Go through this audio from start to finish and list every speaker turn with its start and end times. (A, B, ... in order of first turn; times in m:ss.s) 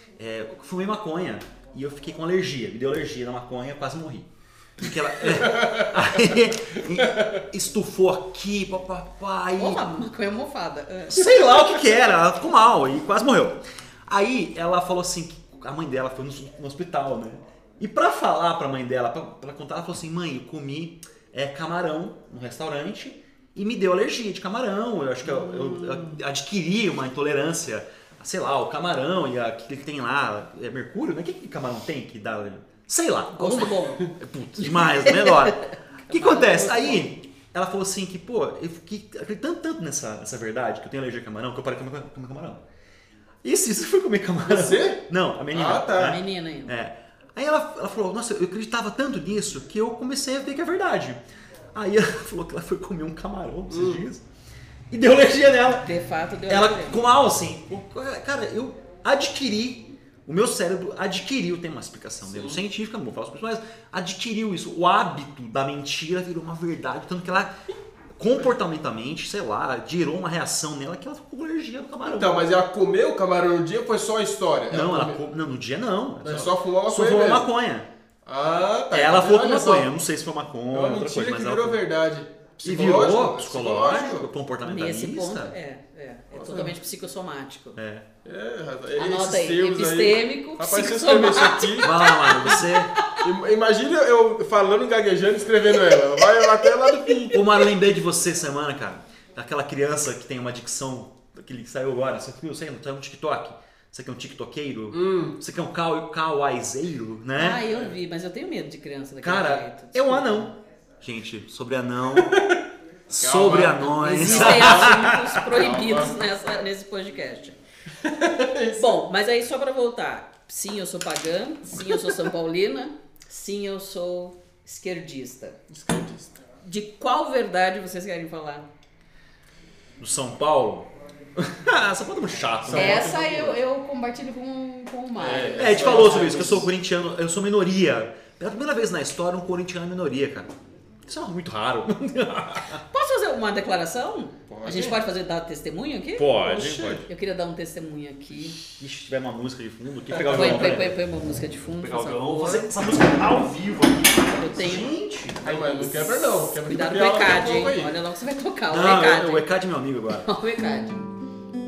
0:00.2-0:09.8 A
0:05.3-0:05.9 B
0:09.6-0:11.3 C
0:11.1-0:42.6 A
0:25.4-0:26.0 B
0:33.3-0:37.0 C
0:43.4-0:51.2 A
0:44.4-0:46.2 B
0:45.9-0:46.7 C
0:51.7-0:54.2 A
0:53.7-0:54.0 B
0:54.9-0:55.9 A
0:55.8-0:57.0 C
0:56.5-1:07.5 A
1:02.3-1:02.6 B
1:08.2-1:12.5 A
1:12.0-1:15.2 B
1:14.7-1:17.9 A
1:16.2-1:17.5 B
1:18.2-1:19.9 B
1:18.9-1:21.8 A
1:20.7-1:24.3 B
1:22.6-1:25.5 A
1:24.6-1:27.8 C
1:26.3-1:26.7 B
1:27.8-1:28.0 A
1:28.2-1:31.9 B
1:29.0-1:33.2 C
1:31.8-1:33.0 A
1:33.2-1:37.4 B
1:35.8-1:37.4 C
1:37.3-1:47.6 A
1:44.9-1:45.4 B
1:47.4-1:50.5 C
1:49.2-1:52.4 A
1:52.2-1:52.6 B
1:53.1-1:55.5 A
1:53.2-1:56.2 B
1:54.0-1:57.6 C
1:58.0-1:59.0 B
1:58.8-2:05.6 C
2:05.7-2:06.4 B
2:06.6-2:08.6 C
2:10.0-2:13.4 A
2:12.6-2:13.5 B
2:12.7-2:16.6 C
2:15.2-2:16.7 B
2:15.6-2:20.5 A
2:21.0-2:22.8 A
2:22.9-2:28.6 C
2:24.5-2:25.0 B
2:26.2-2:27.0 A
2:26.4-2:27.0 B
2:28.8-2:30.9 A
2:30.1-2:30.7 B
2:30.3-2:32.7 C
2:31.8-2:36.2 A
2:34.3-2:34.9 C
2:35.4-2:37.9 B
2:36.5-2:39.4 C
2:38.7-2:40.3 A
2:40.2-2:41.0 C